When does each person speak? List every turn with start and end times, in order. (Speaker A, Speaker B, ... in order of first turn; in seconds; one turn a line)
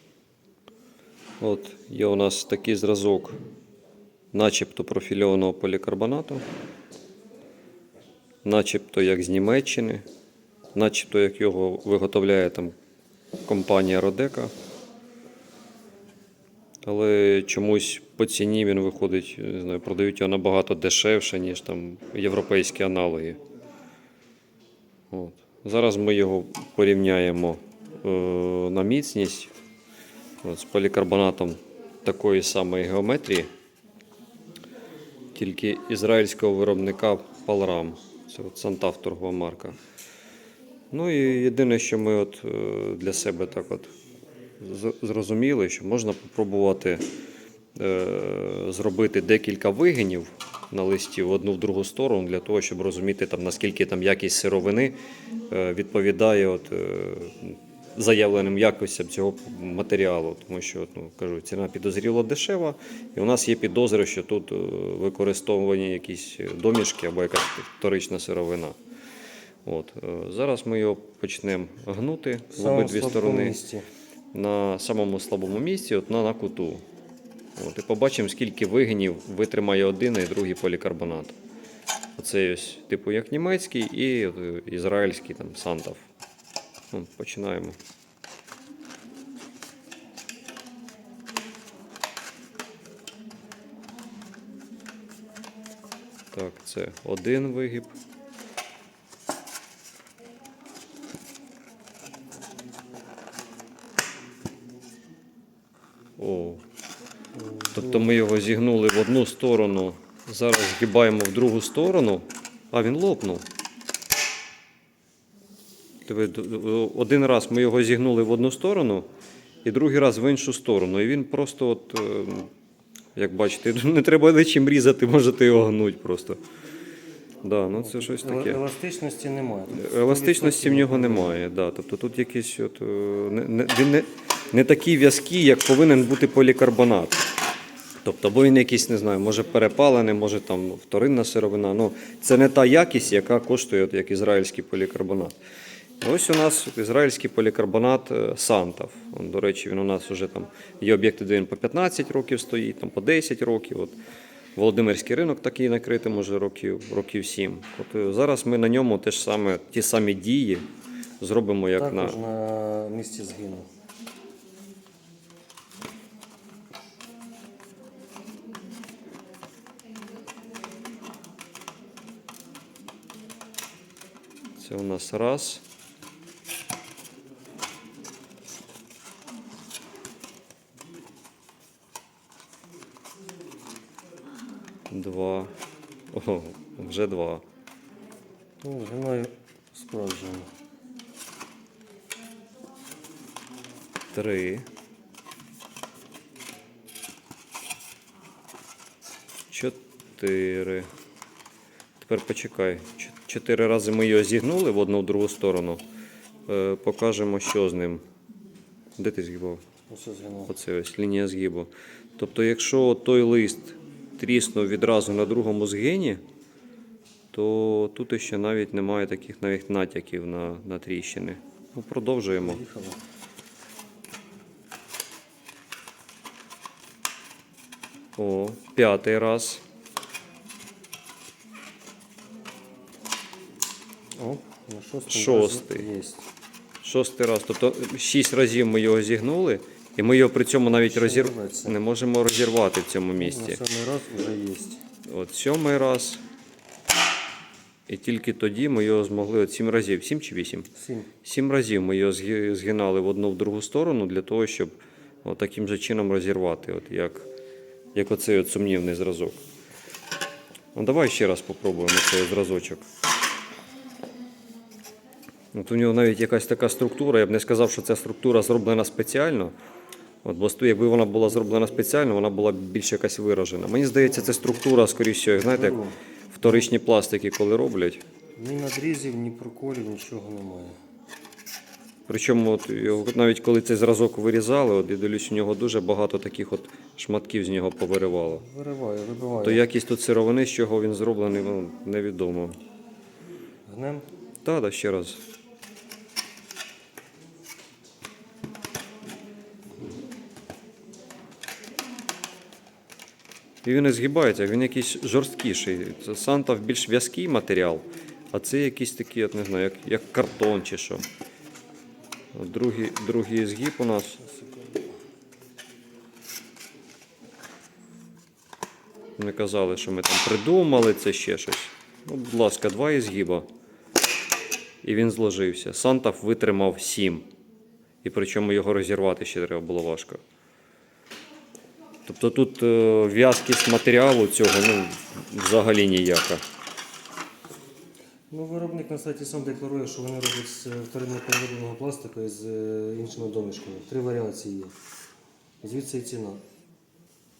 Speaker A: 1.4-3.4
Speaker A: 4.3-6.4
Speaker A: 8.4-10.0
Speaker A: 10.8-12.7
Speaker A: 13.5-14.5
Speaker A: 16.9-23.4
Speaker A: 25.1-29.5
Speaker A: 30.4-33.5
Speaker A: 35.3-39.8
Speaker A: 40.9-43.9
Speaker A: 44.6-47.0
Speaker A: 47.8-55.0
Speaker A: 55.5-68.8
Speaker A: 69.7-73.6
Speaker B: 72.5-73.9
Speaker A: 74.3-76.8
Speaker A: 77.6-81.4
Speaker A: 82.2-86.0
Speaker A: 86.9-87.8
Speaker A: 96.3-98.0
Speaker A: 106.2-106.6
Speaker B: 107.4-108.1
Speaker A: 107.7-113.4
Speaker A: 116.1-119.1
Speaker A: 119.6-122.5
Speaker A: 123.2-126.4
Speaker A: 127.4-128.6
Speaker B: 127.8-131.3
Speaker A: 129.7-137.3
Speaker A: 138.0-145.4
Speaker A: 146.0-154.0
Speaker A: 154.6-160.7
Speaker A: 161.2-162.2
Speaker B: 161.8-163.7
Speaker A: 174.6-175.6
Speaker A: 184.9-185.5
Speaker A: 186.1-187.4
Speaker B: 188.6-190.5
Speaker A: 194.1-194.7
Speaker A: 199.5-200.9
Speaker A: 202.0-205.8
Speaker A: 206.5-208.0
Speaker A: 209.0-209.6
Speaker B: 209.9-210.5
Speaker A: 210.5-216.2
Speaker A: 217.3-222.6
Speaker B: 222.4-223.0
Speaker A: 228.2-229.6
Speaker B: 234.2-236.3
Speaker A: 235.1-235.9
Speaker A: 236.8-243.6
Speaker B: 240.9-241.8
Speaker B: 243.2-244.8
Speaker A: 245.1-246.2
Speaker A: 247.9-250.7
Speaker B: 250.8-251.1
Speaker A: 251.2-254.7
Speaker A: 255.2-257.3
Speaker A: 257.9-259.4
Speaker A: 260.8-262.9
Speaker A: 265.5-269.5
Speaker A: 270.2-275.8
Speaker B: 274.2-274.5
Speaker B: 275.4-276.0
Speaker A: 276.3-278.0
Speaker B: 278.4-280.8
Speaker A: 282.1-288.4
Speaker B: 288.3-289.6
Speaker A: 289.4-292.6
Speaker B: 293.7-294.1
Speaker A: 294.4-295.2
Speaker A: 303.6-311.0
Speaker A: 312.3-314.2
Speaker B: 314.2-314.8
Speaker A: 319.2-323.5
Speaker A: 324.8-327.3
Speaker A: 328.0-330.2
Speaker A: 332.1-336.4
Speaker B: 338.3-344.7
Speaker B: 345.6-346.4